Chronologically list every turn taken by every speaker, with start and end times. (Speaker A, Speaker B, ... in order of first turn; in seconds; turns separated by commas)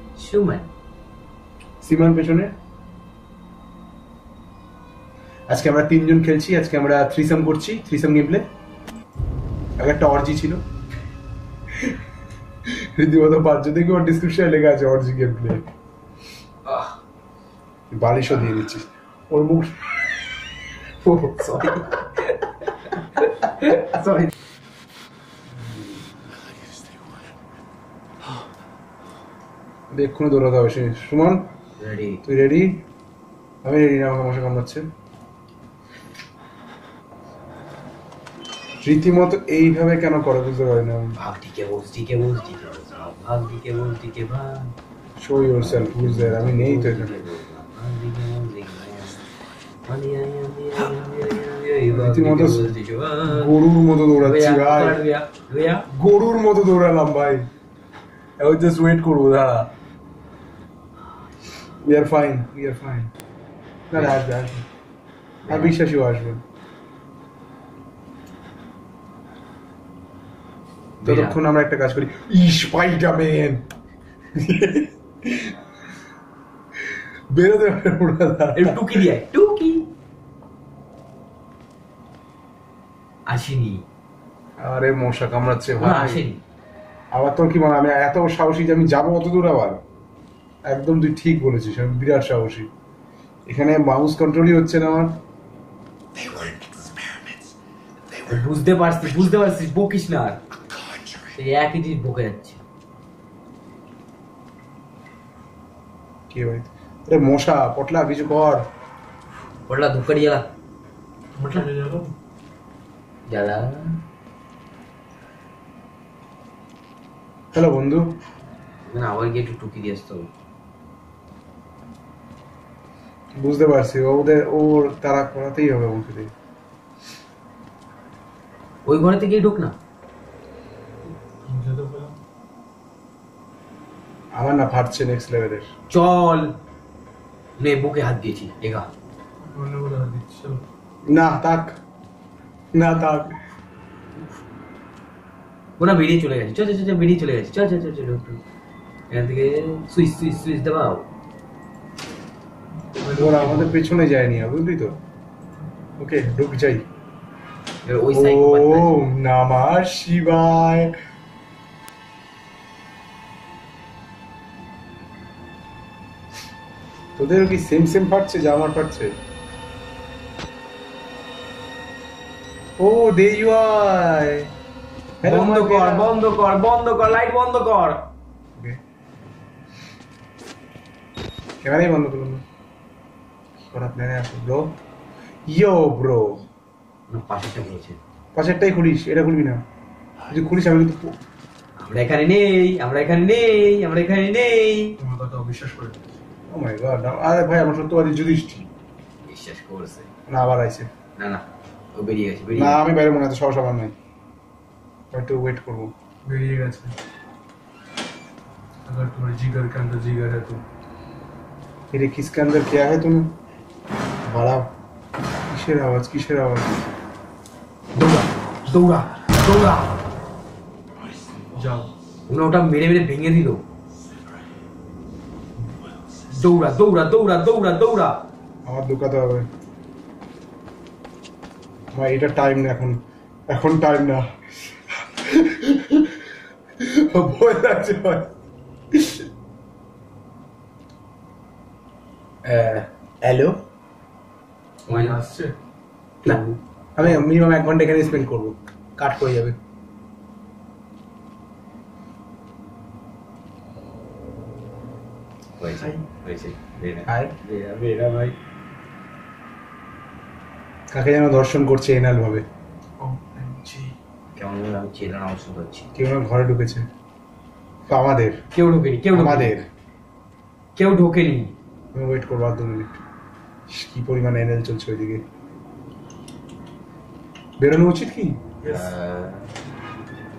Speaker A: 0.1-0.7, Speaker B: 1.8-2.5, Speaker B: 5.5-8.5, Speaker B: 9.8-10.6, Speaker B: 12.7-15.7, Speaker A: 16.6-17.0, Speaker B: 17.9-19.8, Speaker A: 21.1-22.2, Speaker A: 23.4-24.3, Speaker B: 25.5-26.0, Speaker C: 26.4-27.3, Speaker B: 29.9-31.5, Speaker A: 31.8-32.2, Speaker B: 32.2-32.8, Speaker B: 33.6-34.8, Speaker B: 38.8-41.1, Speaker A: 41.2-44.7, Speaker B: 45.2-47.2, Speaker A: 45.6-49.2, Speaker A: 49.9-53.5, Speaker B: 51.9-52.7, Speaker B: 53.2-55.0, Speaker A: 54.2-55.9, Speaker B: 55.9-57.5, Speaker B: 58.4-59.7, Speaker B: 61.8-63.1, Speaker B: 63.9-64.6, Speaker A: 65.5-65.7, Speaker B: 65.5-66.4, Speaker A: 71.0-71.4, Speaker B: 71.0-73.7, Speaker B: 74.3-75.5, Speaker B: 77.3-79.0, Speaker A: 78.5-79.9, Speaker A: 83.3-83.8, Speaker B: 84.6-86.2, Speaker A: 85.8-86.4, Speaker B: 87.1-89.8, Speaker B: 90.7-92.7, Speaker B: 93.5-95.2, Speaker C: 96.1-97.5, Speaker A: 98.3-100.4, Speaker C: 100.7-101.3, Speaker A: 101.3-102.6, Speaker B: 106.3-108.7, Speaker A: 109.7-110.5, Speaker D: 111.3-112.1, Speaker A: 113.3-114.0, Speaker B: 117.5-118.2, Speaker A: 118.9-120.3, Speaker B: 123.4-126.3, Speaker A: 128.8-129.7, Speaker D: 131.0-132.2, Speaker B: 134.3-135.7, Speaker A: 135.9-136.5, Speaker A: 137.6-138.9, Speaker D: 139.4-140.6, Speaker B: 141.1-141.8, Speaker B: 142.7-143.4, Speaker A: 145.8-148.4, Speaker A: 149.1-151.1, Speaker D: 153.0-153.9, Speaker B: 153.1-155.0, Speaker B: 156.0-156.8, Speaker A: 157.8-159.0, Speaker B: 158.1-160.9, Speaker B: 167.2-169.2, Speaker B: 172.8-174.5, Speaker B: 175.2-176.2, Speaker A: 175.2-178.1, Speaker B: 181.6-182.4, Speaker B: 183.7-184.7, Speaker B: 185.5-186.4, Speaker A: 187.1-188.0, Speaker B: 188.3-189.6, Speaker B: 190.3-191.2, Speaker A: 191.8-195.0, Speaker D: 195.0-196.0, Speaker B: 196.5-198.7, Speaker A: 199.2-200.1, Speaker B: 200.3-200.9, Speaker A: 201.2-202.8, Speaker B: 202.6-203.9, Speaker B: 205.1-205.9, Speaker D: 206.2-207.0, Speaker D: 208.8-210.6, Speaker B: 211.9-213.3, Speaker B: 214.2-214.7, Speaker B: 215.5-216.9, Speaker A: 217.9-219.9, Speaker D: 221.5-221.9, Speaker A: 222.3-223.6, Speaker A: 226.3-228.2, Speaker B: 228.7-229.5, Speaker B: 231.9-234.2, Speaker B: 235.0-236.2, Speaker B: 236.8-238.3, Speaker B: 238.9-239.2, Speaker B: 242.4-243.6, Speaker D: 244.9-245.5, Speaker A: 244.9-245.2, Speaker B: 246.2-249.6, Speaker A: 246.2-246.6, Speaker A: 255.6-258.3, Speaker B: 257.1-257.3, Speaker B: 260.9-262.4, Speaker D: 263.0-263.9, Speaker A: 264.3-265.9, Speaker B: 265.9-266.9, Speaker B: 267.9-268.4, Speaker A: 268.5-269.6, Speaker B: 269.1-269.7, Speaker A: 270.8-271.5, Speaker B: 271.9-273.0, Speaker B: 273.7-275.2, Speaker B: 277.6-278.4, Speaker D: 278.6-278.9, Speaker A: 278.6-279.5